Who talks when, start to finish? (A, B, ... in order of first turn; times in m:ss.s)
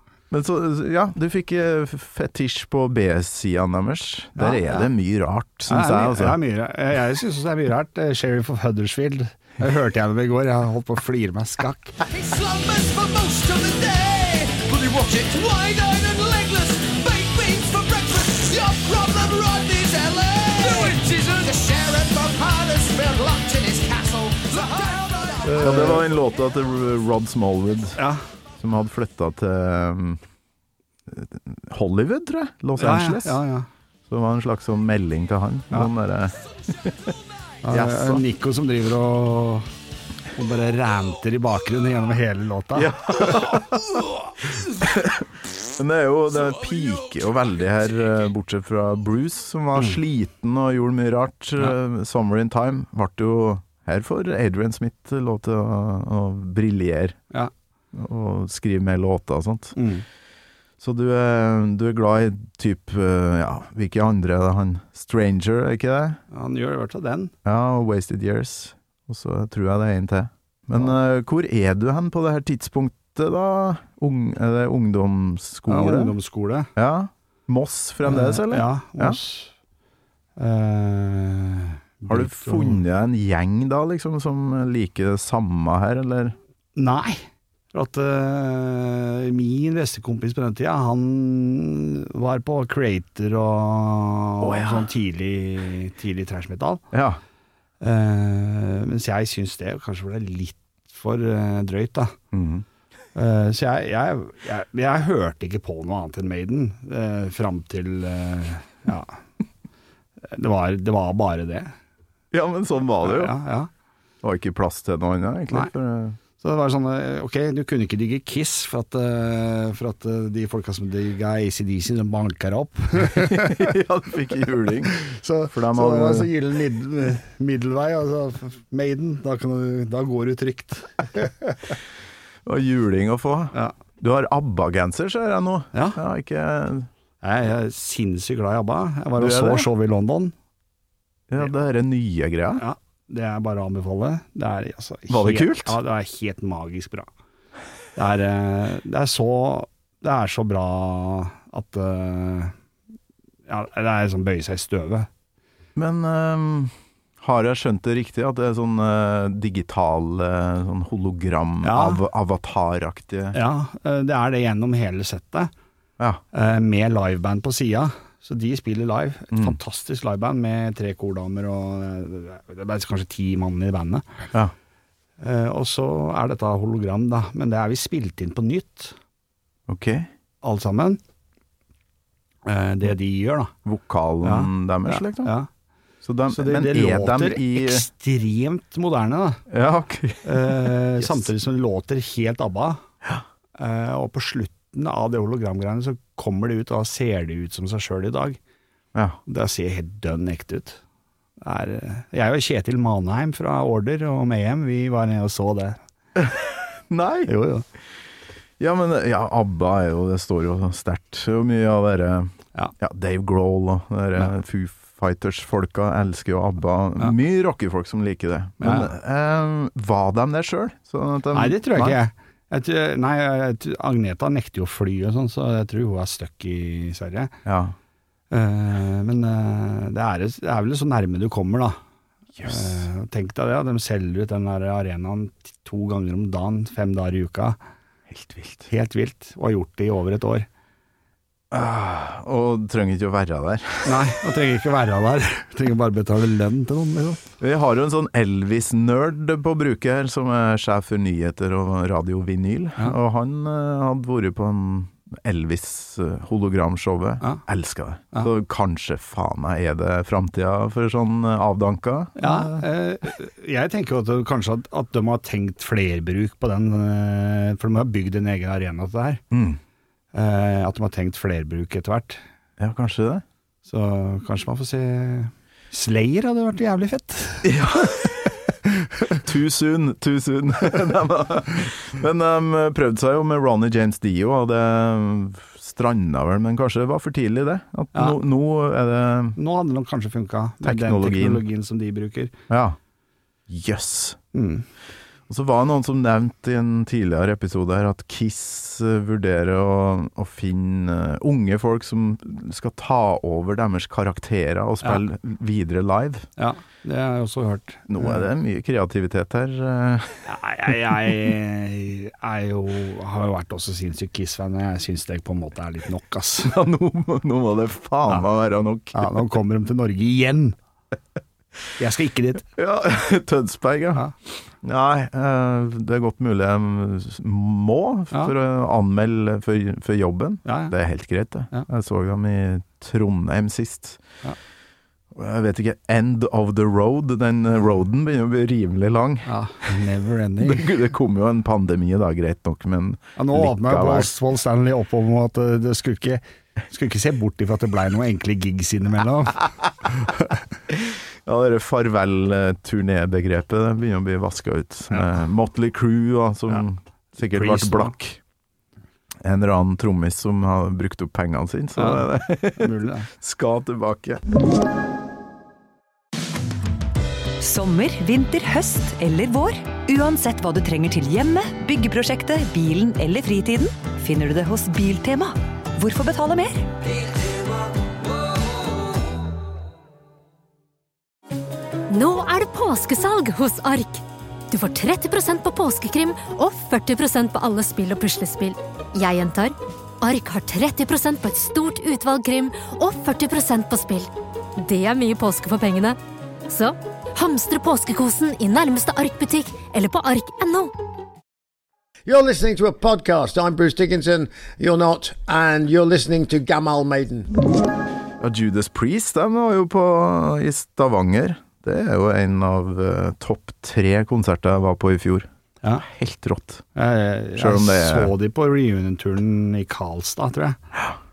0:00.3-0:06.4 A
0:04.4-0:04.9 B
0:05.7-0:12.0 B
0:12.1-0:25.6 C
0:25.4-0:26.0 B
0:25.6-0:28.0 A
0:28.0-0:28.2 B
0:28.6-0:30.2 A
0:31.1-0:33.4 A
0:32.8-0:33.7 B
0:34.1-0:37.1 A
0:37.6-0:39.7 B
0:37.7-0:38.2 A
0:40.3-0:43.4 B
0:42.8-0:43.9 A
0:44.8-0:57.2 A
0:57.9-0:59.8 A
0:59.8-1:00.1 B
1:00.8-1:06.2 A
1:06.3-1:07.3 B
1:07.4-1:16.2 A
1:15.7-1:16.7 B
1:16.8-1:19.2 A
1:18.1-1:19.5 B
1:20.4-1:22.8 B
1:22.1-1:26.4 A
1:26.8-1:36.8 B
1:34.4-1:34.9 A
1:36.9-1:37.2 A
1:37.8-1:42.2 B
1:42.3-1:42.6 A
1:43.2-1:49.2 B
1:50.3-1:51.7 B
1:52.3-1:53.4 A
1:53.0-1:53.7 B
1:54.2-1:56.2 A
1:56.4-2:03.7 B
2:03.1-2:05.0 A
2:05.0-2:11.6 B
2:05.5-2:06.3 A
2:12.4-2:16.9 A
2:15.7-2:16.0 B
2:17.2-2:20.3 B
2:19.2-2:19.7 A
2:21.3-2:22.6 A
2:22.6-2:27.1 B
2:25.1-2:25.8 A
2:28.0-2:32.5 B
2:33.5-2:35.1 B
2:35.8-2:43.4 A
2:41.6-2:42.0 B
2:43.3-2:45.5 B
2:46.3-2:54.3 B
2:49.3-2:49.6 A
2:55.2-2:59.0 B
2:59.7-3:00.1 A
3:00.4-3:01.0 B
3:02.5-3:03.5 B
3:03.6-3:05.3 A
3:04.2-3:05.5 B
3:06.0-3:07.9 A
3:06.3-3:09.4 B
3:09.5-3:11.3 A
3:10.2-3:12.8 B
3:13.6-3:18.4 B
3:19.3-3:20.8 B
3:21.4-3:25.8 B
3:26.2-3:27.3 A
3:27.3-3:27.6 B
3:28.6-3:42.0 A
3:38.6-3:38.9 B
3:41.3-3:47.3 B
3:47.4-3:47.8 A
3:48.3-3:51.8 B
3:52.4-3:52.8 A
3:52.4-3:57.6 B
3:58.1-3:58.7 A
3:58.7-4:00.5 B
4:01.5-4:04.1 A
4:03.8-4:07.2 B
4:07.4-4:22.6 A
4:22.2-4:29.2 B
4:29.3-4:29.6 A
4:30.1-4:32.2 B
4:32.6-4:33.2 A
4:33.6-4:37.5 B
4:37.4-4:38.4 A
4:39.2-4:49.4 A
4:49.4-4:52.3 B
4:50.6-4:51.4 A
4:52.5-4:52.8 A
4:53.5-4:54.2 A
4:54.3-4:54.6 B
4:55.3-5:06.3 A
5:06.4-5:08.2 B
5:07.9-5:10.3 A
5:10.3-5:16.5 B
5:16.4-5:19.2 A
5:18.9-5:20.6 B
5:21.8-5:22.5 B
5:22.6-5:34.0 A
5:30.4-5:30.7 B
5:35.1-5:39.3 A
5:39.3-5:40.7 B
5:40.4-5:44.1 A
5:43.2-5:50.4 B
5:50.7-5:58.2 A
5:57.2-5:58.0 B
5:59.2-6:04.2 A
6:01.8-6:02.1 B
6:02.6-6:03.1 B
6:07.4-6:16.7 D
6:21.9-6:36.0 E
6:36.5-6:40.7 E
6:42.1-6:47.3 F
6:48.2-6:55.3 A
6:55.8-6:56.6 A
6:56.8-7:00.6 B
6:57.4-6:58.1 A